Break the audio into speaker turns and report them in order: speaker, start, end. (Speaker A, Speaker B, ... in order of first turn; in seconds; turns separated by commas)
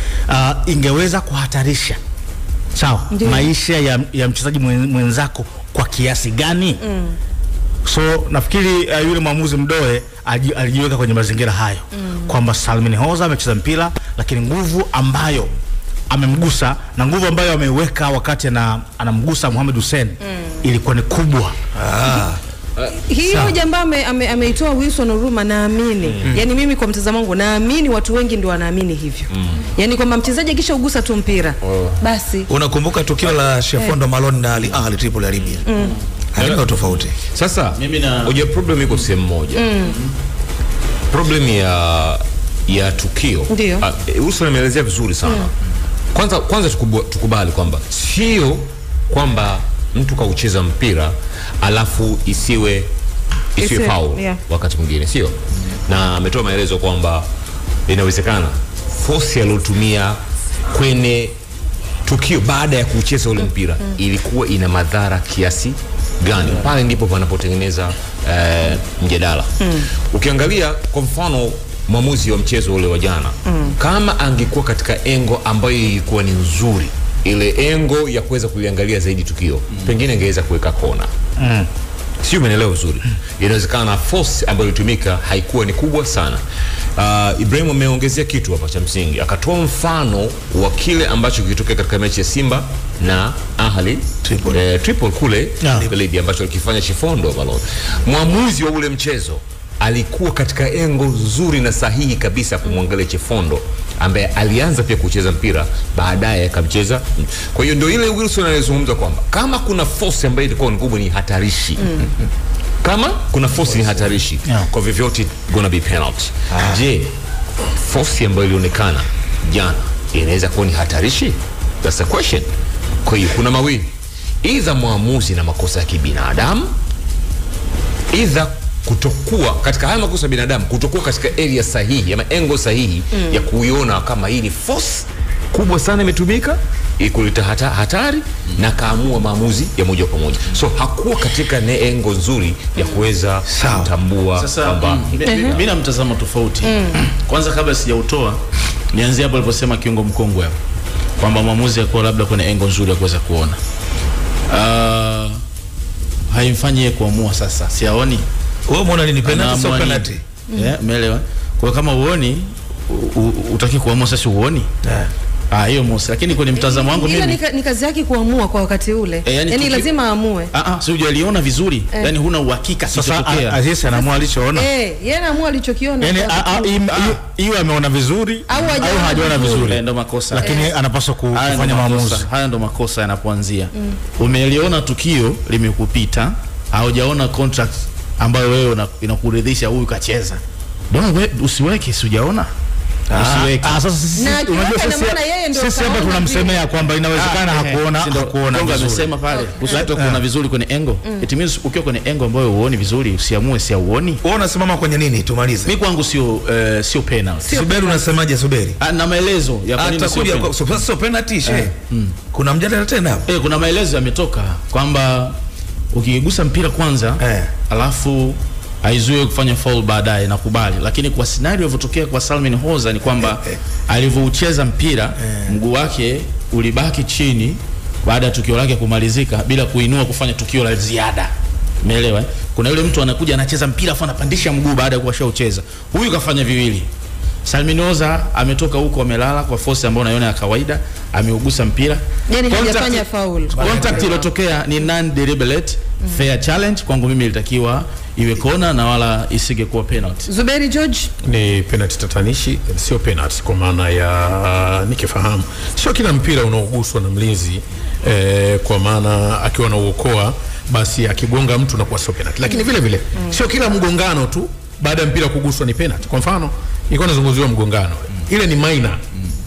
Speaker A: 0.3-2.0, Speaker A: 2.8-6.8, Speaker B: 3.1-3.5, Speaker B: 6.8-7.2, Speaker A: 7.8-15.5, Speaker B: 12.0-12.3, Speaker A: 16.1-21.6, Speaker C: 21.8-22.4, Speaker B: 23.0-32.5, Speaker D: 29.3-29.6, Speaker D: 31.6-32.0, Speaker C: 32.5-35.6, Speaker B: 35.7-35.9, Speaker C: 36.4-37.1, Speaker D: 36.4-39.7, Speaker E: 37.8-38.4, Speaker B: 39.6-40.0, Speaker D: 41.1-45.5, Speaker B: 43.5-43.8, Speaker D: 46.1-52.9, Speaker D: 53.6-57.2, Speaker B: 53.6-54.4, Speaker D: 57.9-60.2, Speaker D: 60.7-61.4, Speaker D: 62.0-81.1, Speaker B: 69.6-69.9, Speaker B: 73.5-73.7, Speaker A: 81.4-81.7, Speaker D: 82.2-86.4, Speaker D: 87.0-112.0, Speaker C: 94.2-94.6, Speaker A: 95.6-95.9, Speaker B: 111.8-112.0, Speaker D: 112.8-117.1, Speaker C: 116.5-116.8, Speaker D: 117.8-122.5, Speaker D: 123.0-123.9, Speaker D: 124.4-126.7, Speaker D: 128.1-145.7, Speaker B: 133.2-133.4, Speaker C: 143.5-143.9, Speaker E: 144.3-148.4, Speaker B: 145.3-145.5, Speaker B: 146.7-147.0, Speaker E: 148.9-150.6, Speaker E: 151.2-153.6, Speaker E: 154.5-155.4, Speaker E: 156.3-158.2, Speaker C: 158.7-160.2, Speaker E: 159.2-164.7, Speaker C: 164.8-165.1, Speaker E: 165.5-167.4, Speaker B: 166.6-170.5, Speaker E: 169.2-169.9, Speaker E: 170.5-173.6, Speaker A: 172.9-174.7, Speaker B: 173.9-176.7, Speaker A: 176.0-182.3, Speaker E: 176.9-177.2, Speaker B: 178.5-179.6, Speaker E: 179.2-180.6, Speaker B: 180.4-180.7, Speaker E: 181.3-190.4, Speaker E: 190.9-192.5, Speaker C: 193.1-193.7, Speaker E: 193.2-193.7, Speaker A: 193.4-199.1, Speaker B: 194.2-196.7, Speaker E: 197.1-204.2, Speaker B: 199.3-199.6, Speaker C: 204.2-205.7, Speaker E: 205.7-207.5, Speaker C: 207.4-208.8, Speaker B: 207.5-208.0, Speaker E: 208.8-210.5, Speaker C: 209.8-211.7, Speaker E: 211.5-212.2, Speaker C: 212.3-213.2, Speaker E: 213.3-215.4, Speaker E: 215.9-231.3, Speaker C: 217.2-217.5, Speaker C: 225.2-225.6, Speaker E: 231.8-236.9, Speaker E: 237.4-250.3, Speaker B: 242.3-244.2, Speaker C: 243.6-244.1, Speaker B: 250.3-251.1, Speaker F: 251.2-269.0